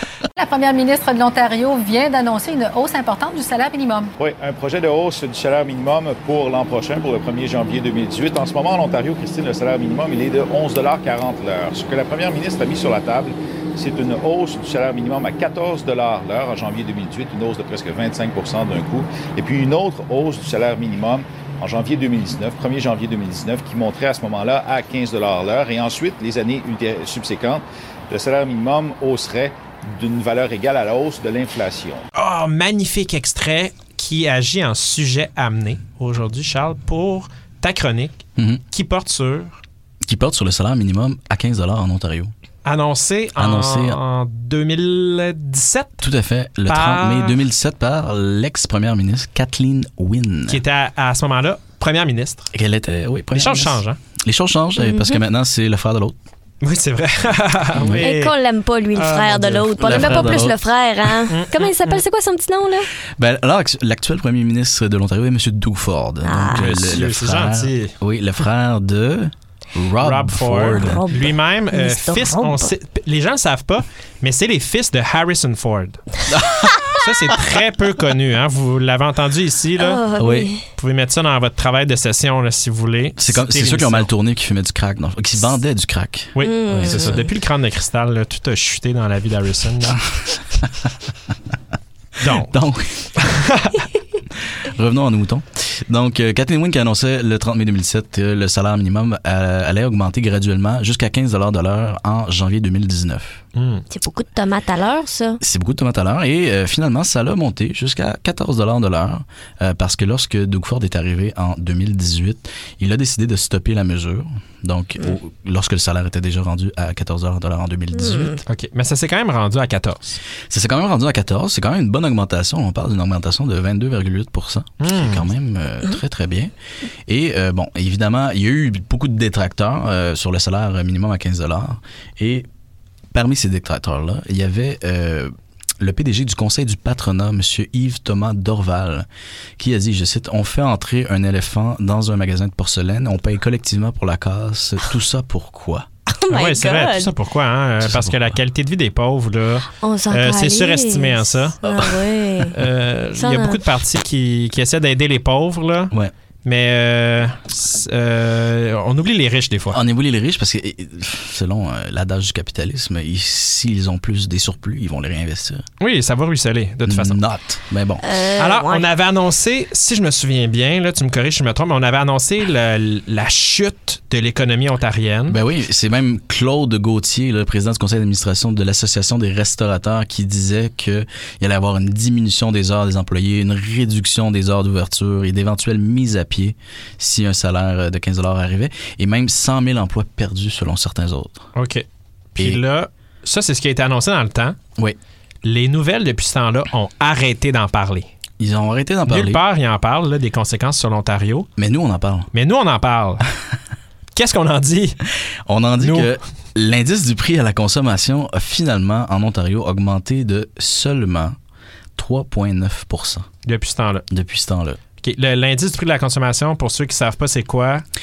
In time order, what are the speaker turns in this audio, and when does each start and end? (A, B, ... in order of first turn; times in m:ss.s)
0:00.4-0:04.1 A
0:04.2-0:32.0 B
0:32.1-0:39.6 C
0:40.1-0:42.3 D
0:42.6-0:46.0 C
0:43.4-0:44.0 D
0:46.0-0:50.6 D
0:46.7-0:47.4 C
0:50.5-0:52.5 C
0:52.5-0:56.2 D
0:53.3-0:54.0 C
0:54.8-0:55.2 E
0:56.6-0:58.3 C
0:57.8-0:58.1 D
0:57.8-1:02.9 E
0:58.9-1:00.5 C
0:59.8-1:00.5 D
1:01.3-1:02.0 C
1:03.2-1:11.1 D
1:06.2-1:06.9 E
1:06.5-1:07.9 C
1:10.0-1:16.0 C
1:10.6-1:12.7 E
1:16.3-1:16.8 D
1:16.9-1:20.1 C
1:19.8-1:20.6 E
1:20.2-1:20.5 D
1:20.8-1:24.1 C
1:23.2-1:27.2 D
1:26.3-1:30.2 C
1:26.4-1:27.3 E
1:32.2-1:32.5 C
1:32.3-1:33.1 D
1:33.2-1:33.9 C
1:34.4-1:43.4 D
1:43.6-1:43.8 C
1:43.9-1:45.4 E
1:45.4-1:58.4 D
1:58.0-1:58.4 E
1:58.4-2:00.0 C
2:00.5-2:06.5 D
2:04.8-2:05.2 C
2:07.1-2:12.5 D
2:13.1-2:19.1 D
2:19.6-2:25.8 D
2:26.1-2:27.1 E
2:26.3-2:31.6 C
2:27.8-2:28.4 D
2:29.7-2:32.6 E
2:32.5-2:35.9 C
2:33.2-2:33.7 E
2:36.4-2:39.8 C
2:39.7-2:45.6 D
2:45.8-2:47.2 C
2:46.8-2:48.0 D
2:48.0-2:48.9 E
2:48.3-2:55.4 C
2:55.3-3:11.5 D
3:11.5-3:14.6 C
3:15.4-3:18.1 C
3:18.4-3:19.4 D
3:19.1-3:21.5 C
3:21.6-3:22.3 D
3:22.3-3:23.3 C
3:24.1-3:25.0 C
3:25.5-3:31.4 D
3:25.8-3:26.1 C
3:32.0-3:33.3 D
3:33.4-3:34.0 C
3:34.1-3:34.8 D
3:35.0-3:37.8 C